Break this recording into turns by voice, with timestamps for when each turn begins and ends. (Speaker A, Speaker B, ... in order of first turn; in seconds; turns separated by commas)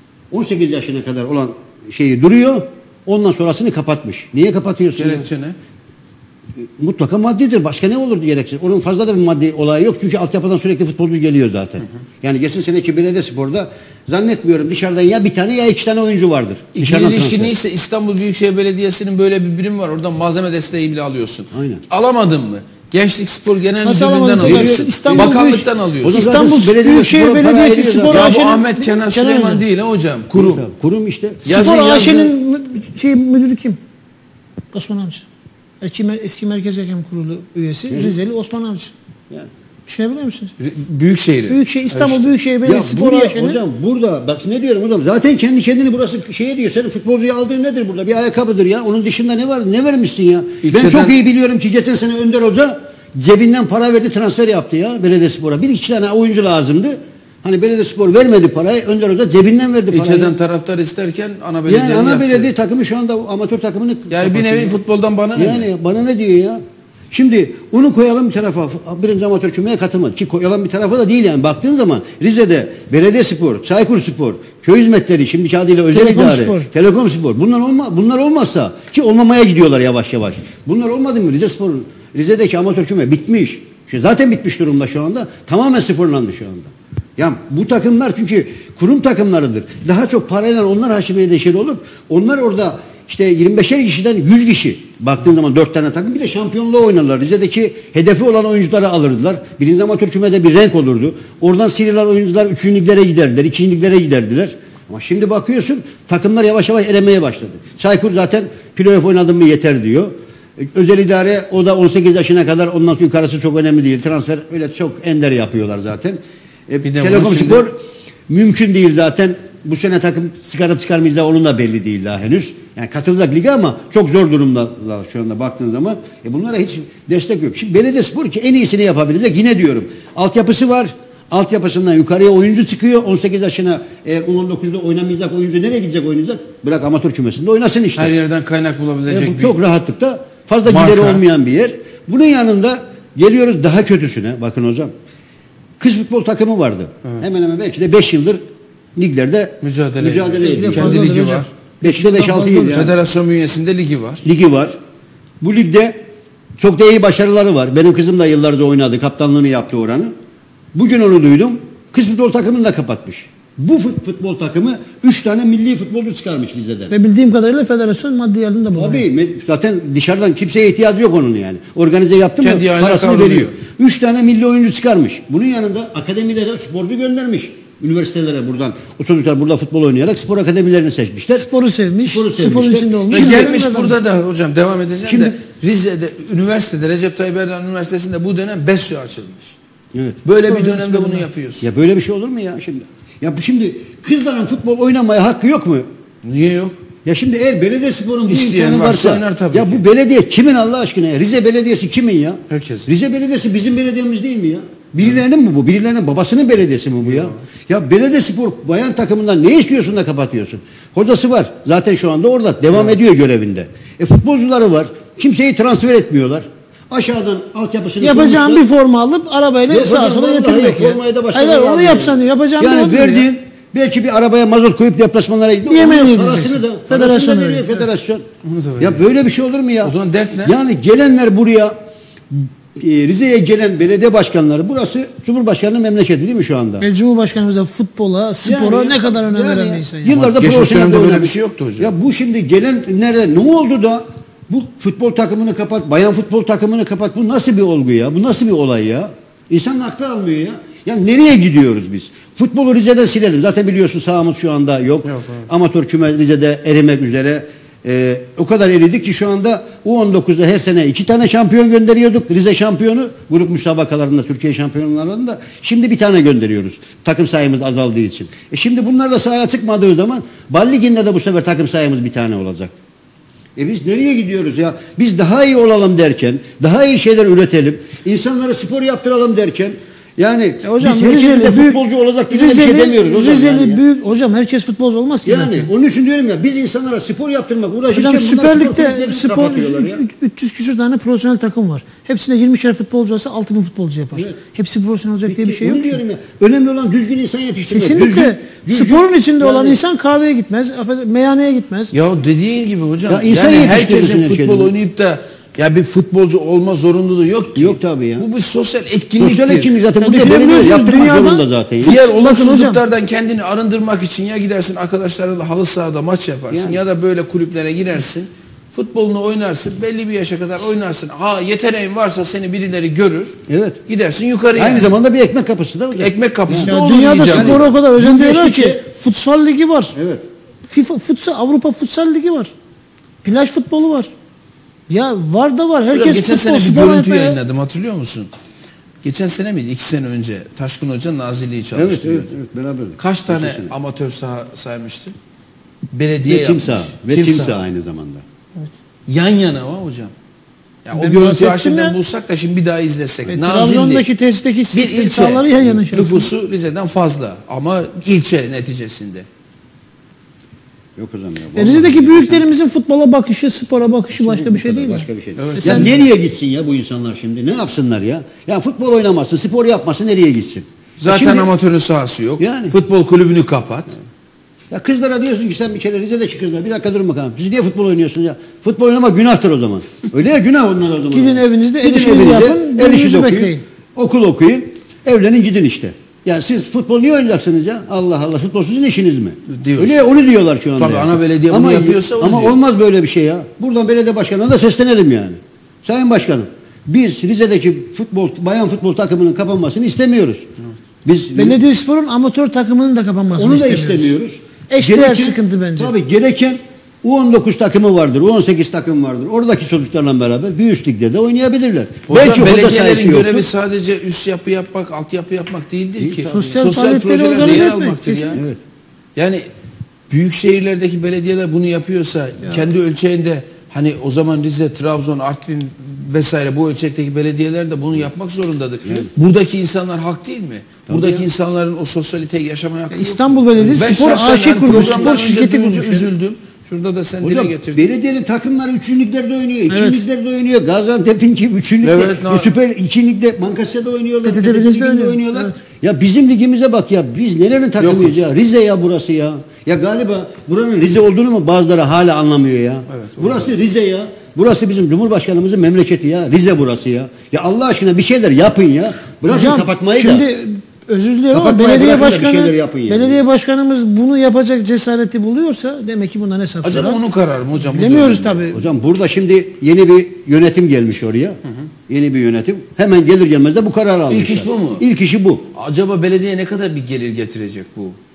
Speaker A: 0.3-5.3, Speaker B: 5.0-5.6, Speaker A: 6.8-17.5, Speaker B: 16.8-26.2, Speaker A: 21.5-21.8, Speaker C: 23.8-29.6, Speaker A: 24.4-25.4, Speaker A: 26.0-28.4, Speaker B: 28.1-30.6, Speaker A: 30.4-31.7, Speaker B: 31.4-32.3, Speaker C: 31.5-33.8, Speaker C: 34.7-35.2, Speaker C: 35.8-38.9, Speaker A: 37.9-38.2, Speaker C: 39.9-40.5, Speaker B: 40.6-42.3, Speaker C: 41.5-43.6, Speaker A: 42.6-60.3, Speaker B: 50.6-51.2, Speaker B: 59.9-62.5, Speaker A: 61.7-64.8, Speaker B: 64.1-65.7, Speaker A: 65.4-117.8, Speaker C: 75.9-76.7, Speaker B: 116.8-117.7, Speaker A: 118.3-138.1, Speaker B: 138.0-139.6, Speaker A: 139.1-144.9, Speaker B: 140.7-141.2, Speaker A: 145.8-148.4, Speaker A: 149.0-151.1, Speaker B: 149.6-151.5, Speaker C: 150.4-152.9, Speaker A: 151.8-152.9, Speaker B: 152.7-154.2, Speaker A: 154.2-154.8, Speaker A: 155.4-156.0, Speaker A: 156.6-160.1, Speaker A: 160.7-166.9, Speaker C: 166.9-169.1, Speaker A: 168.8-181.5, Speaker B: 172.4-173.6, Speaker C: 181.4-183.9, Speaker A: 182.0-183.5, Speaker B: 183.1-189.6, Speaker A: 185.0-185.3, Speaker A: 189.9-190.2, Speaker B: 190.2-191.7, Speaker C: 190.5-191.3, Speaker A: 191.6-195.9, Speaker B: 196.2-196.8, Speaker A: 197.1-218.7, Speaker B: 198.3-199.8, Speaker B: 202.5-202.9, Speaker B: 207.1-207.3, Speaker C: 218.0-223.3, Speaker A: 219.7-228.2, Speaker C: 225.7-227.8, Speaker B: 228.4-229.1, Speaker A: 228.8-231.7, Speaker B: 229.8-230.6, Speaker A: 232.3-236.9, Speaker C: 236.8-240.4, Speaker A: 238.4-272.7, Speaker B: 240.3-241.9, Speaker B: 255.1-255.5, Speaker A: 273.6-283.8, Speaker C: 280.6-281.8, Speaker C: 282.3-285.7, Speaker A: 285.3-290.0, Speaker C: 287.9-296.0, Speaker A: 295.3-299.8, Speaker C: 297.7-301.9, Speaker B: 301.9-309.7, Speaker A: 303.1-304.7, Speaker A: 307.6-308.3, Speaker A: 309.2-312.0, Speaker C: 310.0-312.8, Speaker B: 311.8-323.4, Speaker A: 316.5-316.8, Speaker A: 323.5-323.8, Speaker B: 323.9-324.9, Speaker A: 324.6-326.7, Speaker B: 325.9-327.6, Speaker C: 326.7-329.9, Speaker A: 327.3-328.8, Speaker A: 329.9-330.2, Speaker C: 330.7-332.5, Speaker C: 333.2-334.1, Speaker C: 334.9-337.4, Speaker B: 335.9-338.3, Speaker B: 339.0-342.3, Speaker A: 341.8-343.7, Speaker B: 343.0-345.1, Speaker B: 345.9-347.6, Speaker A: 346.3-348.2, Speaker B: 349.1-350.1, Speaker B: 350.9-354.1, Speaker C: 350.9-351.9, Speaker C: 353.3-356.3, Speaker B: 354.7-359.3, Speaker A: 361.0-362.5, Speaker C: 361.6-365.1, Speaker A: 364.1-371.5, Speaker B: 365.4-366.0, Speaker C: 365.6-366.0, Speaker B: 371.0-374.0, Speaker A: 372.4-372.8, Speaker A: 374.7-400.4, Speaker C: 381.1-383.6, Speaker B: 389.5-390.1, Speaker B: 390.8-392.6, Speaker A: 401.1-401.6, Speaker C: 401.4-404.1, Speaker A: 403.4-413.5, Speaker C: 404.7-405.9, Speaker B: 412.1-418.4, Speaker A: 416.0-416.3, Speaker C: 416.3-418.4, Speaker A: 417.4-417.6, Speaker A: 418.3-418.6, Speaker B: 419.2-419.4, Speaker B: 420.1-437.8, Speaker A: 430.9-431.2, Speaker C: 432.9-436.1, Speaker A: 437.2-460.2, Speaker C: 439.7-440.0, Speaker B: 441.8-442.5, Speaker C: 444.2-445.5, Speaker B: 447.8-448.3, Speaker B: 452.9-453.5, Speaker C: 459.3-467.0, Speaker A: 461.3-463.2, Speaker B: 466.6-468.5, Speaker C: 467.6-468.6, Speaker A: 468.5-475.5, Speaker B: 474.1-474.8, Speaker B: 475.5-478.0